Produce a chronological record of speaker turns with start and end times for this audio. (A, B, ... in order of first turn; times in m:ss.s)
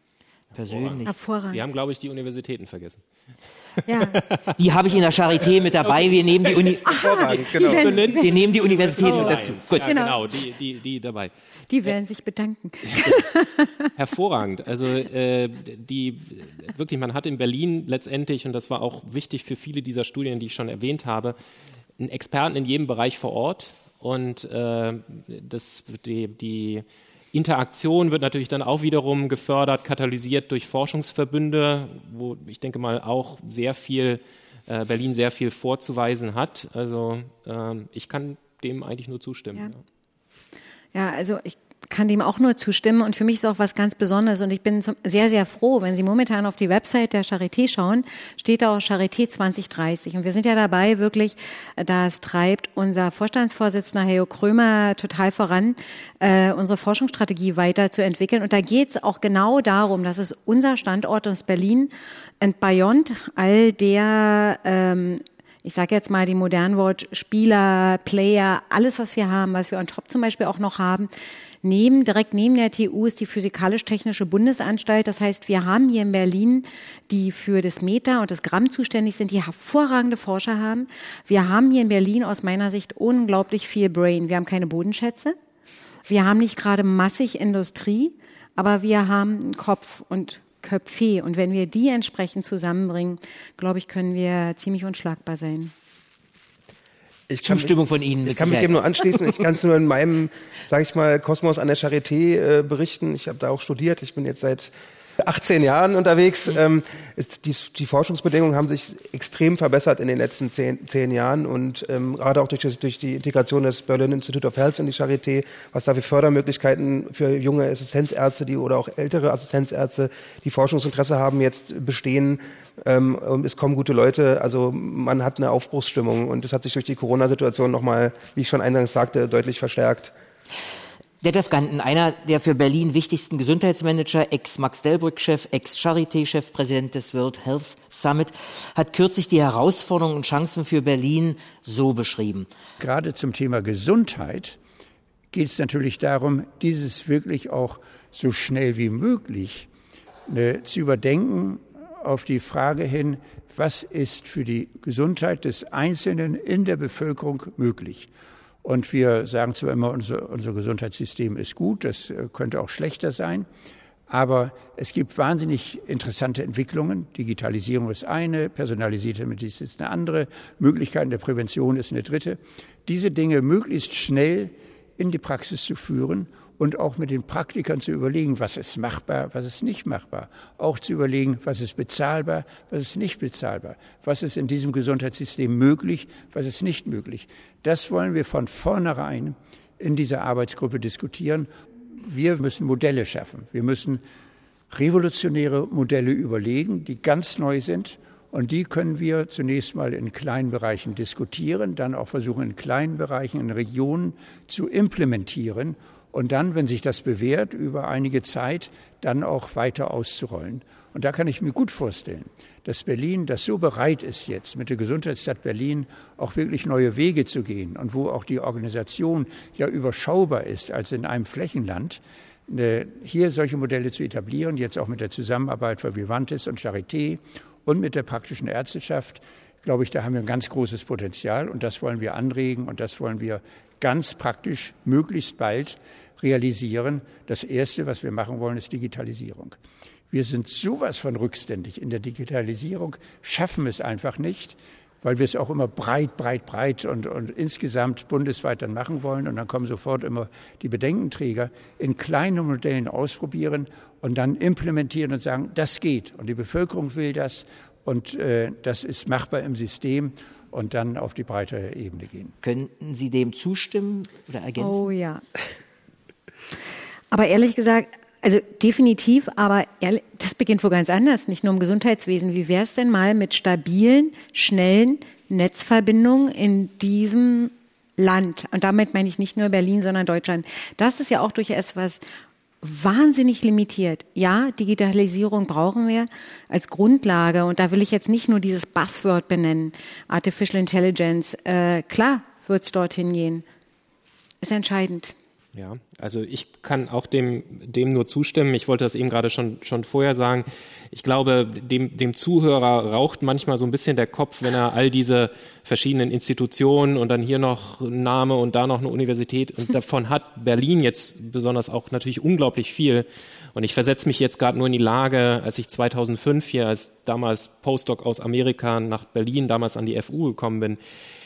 0:00.5-0:01.1 A
0:00.6-0:03.0 B
0:01.1-0:01.6 C
0:03.9-0:04.2 C
0:04.0-0:04.6 B
0:04.6-0:09.9 A
0:05.9-0:06.7 B
0:06.8-0:08.3 C
0:07.0-0:07.9 D
0:07.6-0:11.3 B
0:09.0-0:09.3 C
0:09.8-0:10.2 C
0:11.7-0:13.9 C
0:12.9-0:13.2 B
0:14.0-0:21.4 B
0:22.0-0:39.8 B
0:40.9-1:11.1 C
1:11.6-1:25.4 C
1:26.1-1:35.7 C
1:37.3-1:37.7 D
1:37.4-1:39.4 A
1:38.2-2:10.1 D
2:11.2-2:22.5 A
2:22.8-2:24.6 E
2:25.3-2:29.7 E
2:30.3-2:38.1 E
2:38.6-2:43.5 E
2:44.1-3:11.5 E
3:12.0-3:14.0 E
3:14.7-3:59.6 E
4:00.1-4:22.3 E
4:22.4-4:24.9 A
4:24.6-4:25.2 C
4:27.1-4:42.0 C
4:42.6-4:53.4 C
4:54.4-4:55.1 C
4:55.6-5:20.8 B